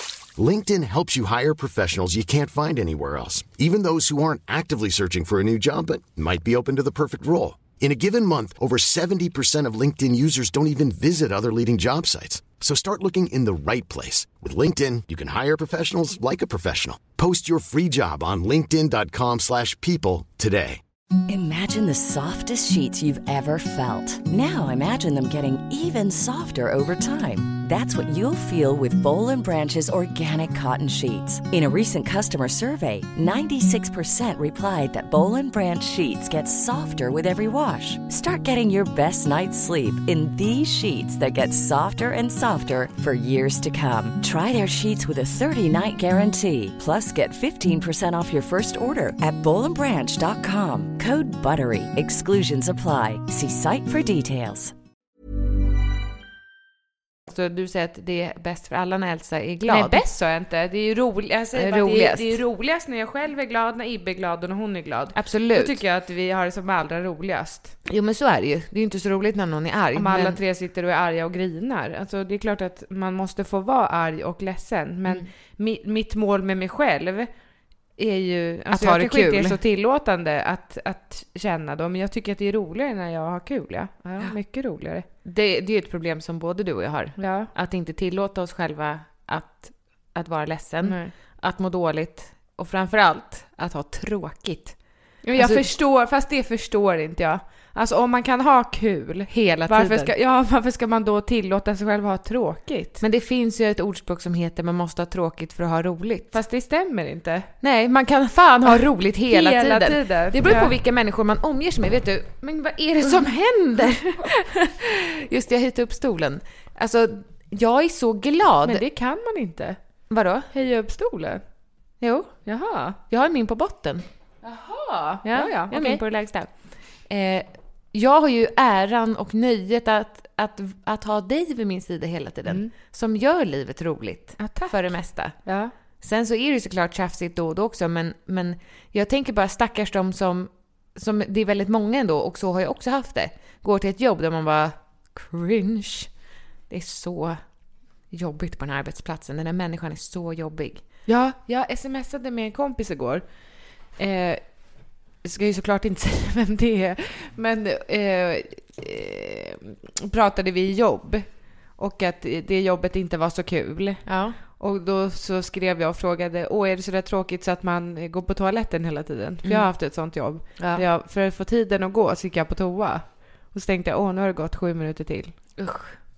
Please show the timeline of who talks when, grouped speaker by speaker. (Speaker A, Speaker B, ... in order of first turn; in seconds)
Speaker A: 0.3-20.8
Speaker B: 21.3-54.7
Speaker C: 57.3-60.0, 61.5-62.4, 65.1-65.8, 67.8-70.4, 78.7-79.6, 85.2-94.8, 95.3-95.7, 99.3-100.1, 103.0-106.4, 107.6-118.8, 120.1-120.5, 122.0-122.4, 123.1-124.0, 125.2-135.4, 136.0-146.1, 146.7-147.4, 148.1-150.8, 164.1-164.4, 169.4-169.7, 170.6-170.8, 175.6-175.9
Speaker D: 59.6-67.8, 69.9-77.3, 78.0-85.0, 87.2-87.5, 90.8-91.1, 95.2-103.0, 106.3-107.5, 108.7-110.7, 118.6-119.8, 120.5-121.4, 122.5-123.0, 124.4-126.0, 132.5-132.7, 134.4-134.9, 135.4-135.7, 151.1-153.2, 153.9-154.6, 155.2-175.3